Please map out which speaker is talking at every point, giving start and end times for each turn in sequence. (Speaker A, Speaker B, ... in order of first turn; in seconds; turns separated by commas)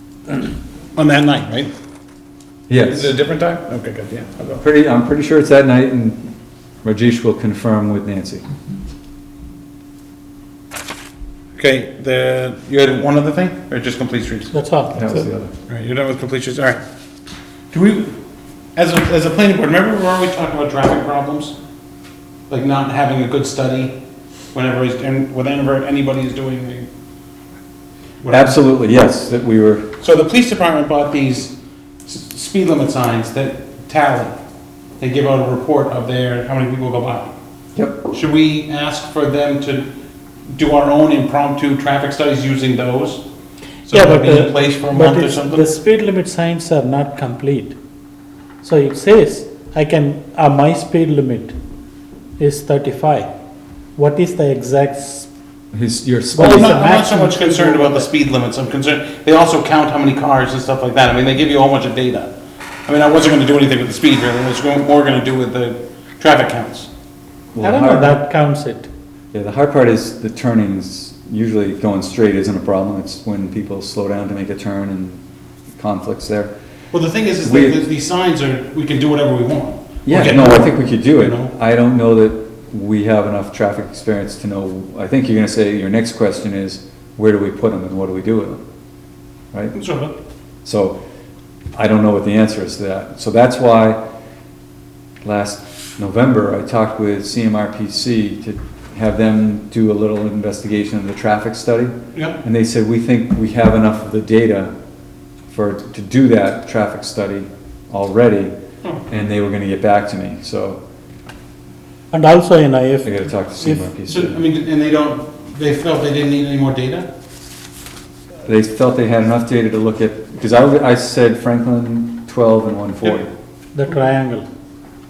Speaker A: 0.3-1.7, Speaker B: 2.7-3.1, Speaker A: 2.8-4.6, Speaker B: 4.6-6.3, Speaker B: 6.8-8.4, Speaker A: 11.6-14.5, Speaker C: 14.5-15.2, Speaker B: 14.9-15.5, Speaker A: 15.7-16.8, Speaker A: 17.7-18.1, Speaker A: 18.8-21.6, Speaker A: 22.5-24.0, Speaker A: 24.5-26.9, Speaker A: 28.2-28.6, Speaker B: 28.3-29.9, Speaker A: 30.0-31.5, Speaker A: 32.0-34.4, Speaker A: 35.0-37.3, Speaker B: 37.7-38.1, Speaker A: 38.1-39.9, Speaker A: 40.5-43.2, Speaker A: 43.9-45.7, Speaker C: 43.9-47.7, Speaker C: 48.6-51.5, Speaker C: 52.4-53.3, Speaker C: 54.0-55.3, Speaker B: 55.7-56.8, Speaker C: 56.3-58.1, Speaker A: 56.4-62.3, Speaker A: 62.9-66.9, Speaker B: 67.5-68.2, Speaker C: 67.6-68.9, Speaker B: 69.3-75.2, Speaker B: 75.8-76.5, Speaker A: 76.9-81.5, Speaker B: 77.4-77.8, Speaker B: 80.0-88.6, Speaker A: 89.7-90.2, Speaker B: 90.6-91.0, Speaker B: 91.8-94.0, Speaker B: 95.2-104.7, Speaker A: 102.1-102.4, Speaker B: 105.5-108.5, Speaker B: 109.1-110.8, Speaker C: 112.1-113.8, Speaker B: 113.0-114.4, Speaker A: 114.1-117.1, Speaker B: 118.4-123.3, Speaker C: 123.7-124.4